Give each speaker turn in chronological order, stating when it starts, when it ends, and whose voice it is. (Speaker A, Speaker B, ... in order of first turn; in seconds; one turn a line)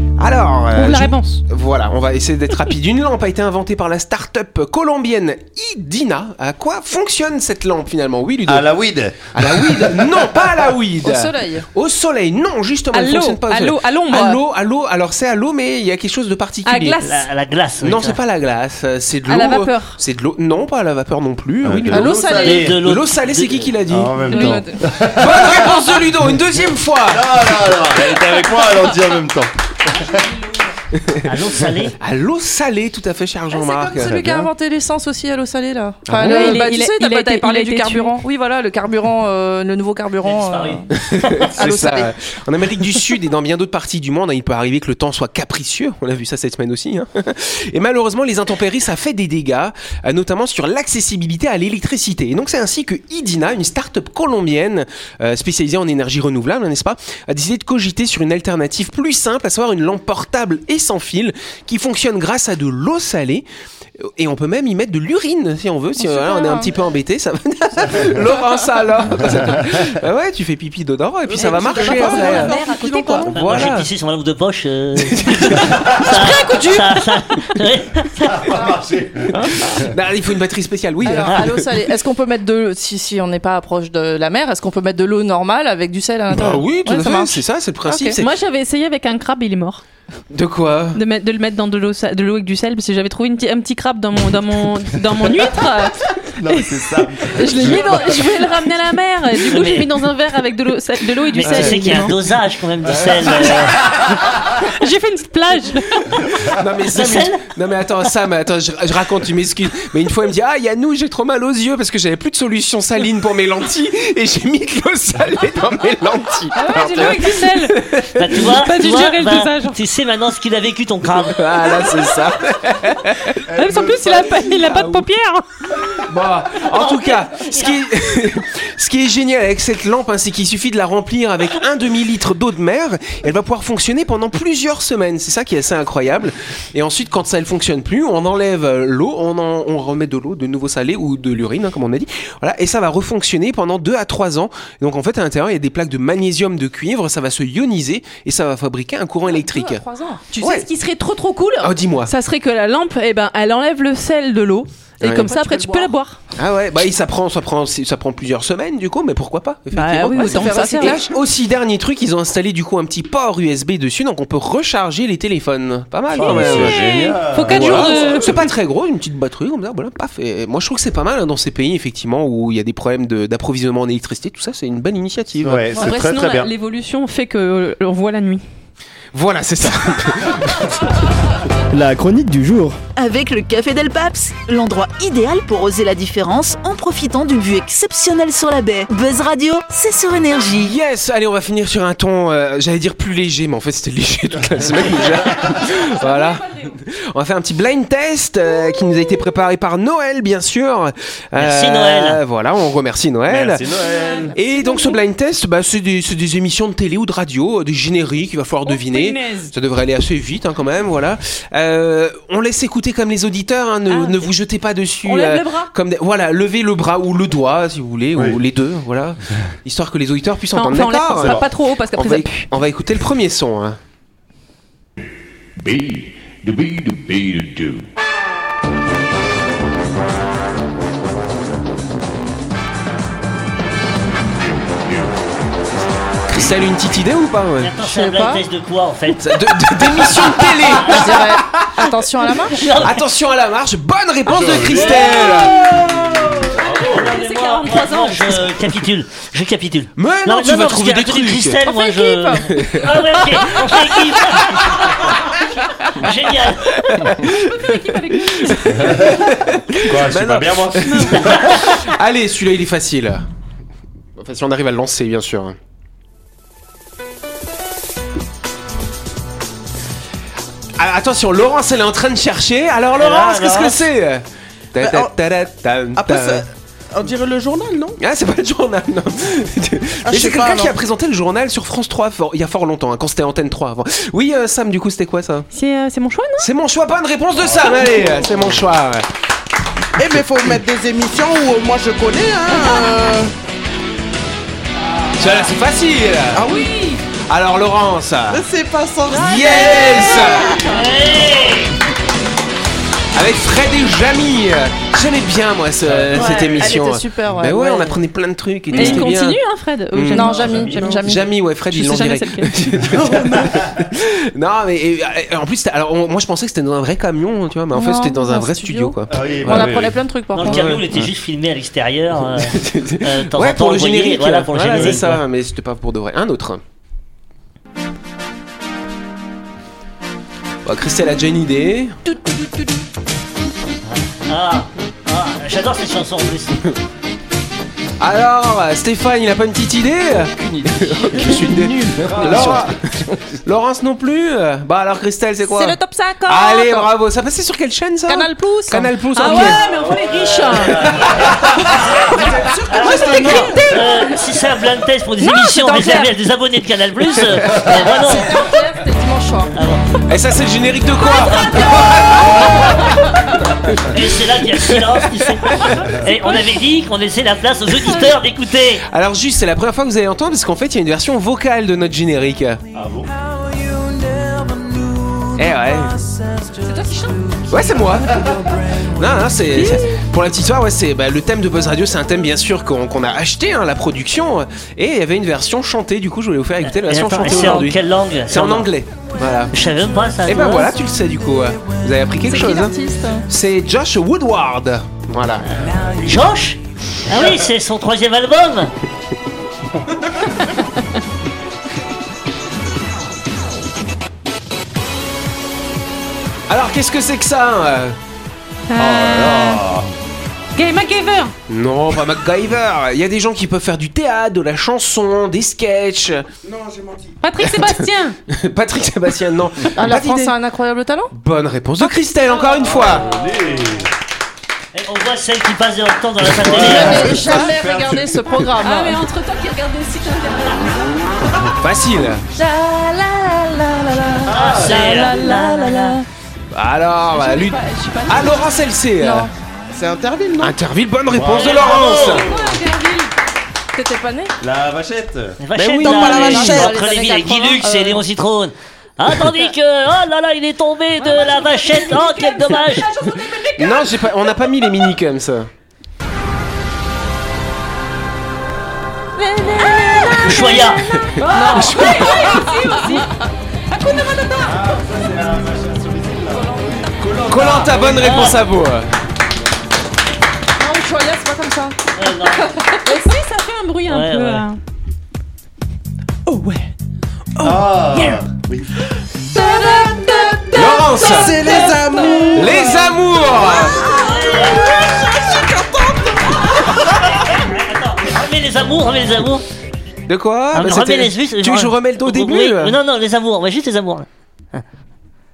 Speaker A: 0.2-8.7
Speaker B: 0.7-1.4
Speaker C: 8.5-10.1
Speaker A: 9.3-17.0
Speaker D: 11.0-11.7
Speaker B: 12.9-14.4
Speaker B: 16.6-17.3
Speaker E: 17.0-18.2
Speaker A: 17.8-24.5
Speaker B: 19.2-20.0
Speaker C: 21.6-22.8
Speaker D: 21.9-22.7
Speaker E: 22.4-23.7
Speaker C: 23.9-30.2
Speaker D: 24.2-24.8
Speaker B: 24.2-24.6
Speaker A: 25.1-27.6
Speaker A: 30.9-31.3
Speaker E: 31.2-31.9
Speaker A: 32.0-34.1
Speaker D: 33.5-40.9
Speaker C: 33.9-34.5
Speaker A: 36.1-36.6
Speaker B: 36.2-38.1
Speaker E: 40.2-41.3
Speaker A: 40.9-63.4
Speaker D: 41.5-42.1
Speaker A: 64.0-72.5
Speaker D: 66.0-66.7
Speaker C: 69.2-69.9
Speaker F: 71.3-73.4
Speaker B: 71.4-73.7
Speaker A: 73.3-73.9
Speaker E: 73.3-78.6
Speaker A: 75.0-75.9
Speaker C: 75.7-76.1
Speaker B: 76.0-77.3
Speaker C: 78.2-79.9
Speaker A: 79.3-81.7
Speaker D: 81.0-88.2
Speaker A: 86.3-88.3
Speaker B: 88.2-89.8
Speaker A: 90.3-91.0
Speaker B: 90.9-102.2
Speaker C: 96.3-98.3
Speaker E: 99.5-100.0
Speaker E: 101.3-104.0
Speaker A: 101.4-102.1
Speaker A: 102.8-103.7
Speaker B: 103.5-103.7
Speaker B: 104.4-106.2
Speaker A: 106.4-118.5
Speaker E: 106.9-107.5
Speaker B: 116.5-117.8
Speaker E: 118.1-121.7
Speaker B: 118.4-119.8
Speaker A: 121.2-125.1
Speaker B: 123.5-125.5
Speaker A: 125.9-149.8
Speaker E: 126.6-127.8
Speaker D: 149.3-150.2
Speaker B: 150.3-156.2
Speaker A: 150.4-150.7
Speaker A: 151.6-152.1
Speaker A: 155.0-155.3
Speaker D: 155.1-155.9
Speaker A: 156.3-166.8
Speaker B: 159.7-161.1
Speaker D: 160.1-161.0
Speaker C: 166.1-168.5
Speaker B: 166.2-168.5
Speaker A: 167.5-175.8
Speaker C: 175.4-176.5
Speaker B: 175.7-178.4
Speaker A: 179.1-181.0
Speaker G: 181.7-182.8
Speaker H: 182.9-190.8
Speaker A: 190.5-203.7
Speaker B: 195.4-196.7
Speaker E: 201.4-202.2
Speaker C: 203.3-204.3
Speaker B: 203.8-205.0
Speaker A: 204.3-223.8
Speaker B: 208.7-209.5
Speaker B: 213.9-214.3
Speaker B: 215.0-215.7
Speaker B: 220.5-222.5
Speaker G: 225.6-227.7
Speaker A: 236.3-237.7
Speaker E: 237.6-241.2
Speaker D: 237.8-238.4
Speaker A: 239.1-241.9
Speaker D: 240.8-242.7
Speaker E: 242.5-243.1
Speaker A: 242.7-245.6
Speaker C: 244.3-245.2
Speaker B: 244.9-245.5
Speaker E: 245.1-256.8
Speaker C: 246.3-246.6
Speaker B: 246.6-248.6
Speaker A: 250.0-251.6
Speaker D: 251.6-252.5
Speaker A: 252.5-253.0
Speaker A: 256.8-263.2
Speaker B: 257.2-259.2
Speaker C: 258.7-261.5
Speaker B: 260.8-261.2
Speaker A: 264.2-265.6
Speaker A: 270.8-276.4
Speaker E: 273.0-273.6
Speaker F: 274.8-275.1
Speaker F: 275.9-278.0
Speaker A: 278.0-285.5
Speaker F: 280.0-280.8
Speaker B: 285.5-286.5
Speaker A: 286.4-289.1
Speaker C: 288.2-288.6
Speaker F: 290.0-293.3
Speaker A: 295.1-296.5
Speaker F: 296.3-296.7
Speaker B: 296.4-297.0
Speaker A: 297.1-298.5
Speaker F: 298.3-300.7
Speaker B: 299.1-300.9
Speaker A: 299.1-300.6
Speaker E: 300.6-301.7
Speaker A: 303.1-309.4
Speaker C: 305.9-306.4
Speaker D: 306.1-308.0
Speaker B: 306.2-306.5
Speaker B: 308.7-313.5
Speaker A: 309.9-319.7
Speaker D: 310.1-311.3
Speaker C: 310.4-310.8
Speaker C: 312.8-313.8
Speaker D: 317.7-320.7
Speaker C: 319.1-320.0
Speaker E: 320.3-325.2
Speaker A: 320.4-321.0
Speaker A: 322.3-326.6
Speaker A: 330.6-332.0
Speaker B: 332.1-332.7
Speaker E: 333.9-336.7
Speaker A: 338.0-349.6
Speaker G: 340.4-342.7
Speaker C: 342.0-342.7
Speaker D: 345.4-346.9
Speaker D: 348.1-349.6
Speaker B: 349.1-351.0
Speaker C: 349.9-351.8
Speaker A: 350.8-351.1
Speaker F: 352.2-353.7
Speaker B: 352.3-354.2
Speaker E: 352.7-358.4
Speaker B: 355.2-356.1
Speaker D: 357.7-359.5
Speaker E: 359.5-359.8
Speaker A: 360.1-362.8
Speaker A: 363.7-364.1
Speaker E: 363.8-368.8
Speaker A: 364.6-365.9
Speaker A: 368.9-372.6
Speaker C: 372.7-373.1
Speaker A: 375.4-376.0
Speaker B: 376.6-378.0
Speaker A: 377.5-389.5
Speaker B: 379.5-380.0
Speaker E: 386.6-388.7
Speaker E: 389.5-390.7
Speaker A: 390.3-392.8
Speaker D: 392.2-393.3
Speaker A: 393.3-395.6
Speaker E: 396.0-398.7
Speaker A: 406.5-407.9
Speaker B: 408.7-409.6
Speaker C: 408.8-409.9
Speaker B: 410.5-411.3
Speaker A: 411.5-416.3
Speaker F: 416.4-417.2
Speaker B: 417.2-418.2
Speaker A: 417.4-420.3
Speaker D: 419.8-421.1
Speaker A: 421.1-423.1
Speaker B: 422.2-423.0
Speaker C: 422.6-423.9
Speaker E: 424.7-427.1
Speaker C: 426.2-428.3
Speaker D: 426.5-429.0
Speaker B: 428.6-431.2
Speaker A: 431.6-432.2
Speaker B: 432.4-436.0
Speaker C: 434.2-435.1
Speaker E: 434.3-436.0
Speaker A: 436.5-439.3
Speaker B: 437.1-438.6
Speaker D: 439.0-439.3
Speaker F: 439.7-440.6
Speaker A: 440.4-442.3
Speaker C: 441.1-441.7
Speaker E: 441.2-442.3
Speaker B: 441.5-443.1
Speaker D: 443.8-444.3
Speaker C: 444.4-445.4
Speaker E: 445.4-453.1
Speaker F: 445.6-446.7
Speaker A: 445.6-446.6
Speaker D: 445.8-448.0
Speaker B: 451.0-454.8
Speaker A: 453.6-455.5
Speaker B: 459.2-464.6
Speaker E: 460.2-460.9
Speaker A: 460.8-462.4
Speaker D: 461.3-462.8
Speaker C: 464.4-468.5
Speaker D: 466.3-466.9
Speaker A: 467.2-468.9
Speaker E: 468.0-468.4
Speaker D: 470.6-472.3
Speaker E: 471.9-472.6
Speaker B: 472.6-474.6
Speaker E: 473.9-474.4
Speaker B: 476.3-476.7
Speaker B: 477.4-477.9
Speaker C: 477.4-478.7
Speaker B: 479.3-483.0
Speaker A: 480.5-481.4
Speaker F: 481.1-487.4
Speaker A: 482.3-483.8
Speaker E: 483.8-485.5
Speaker E: 486.3-489.4
Speaker A: 490.1-492.8
Speaker E: 490.5-494.6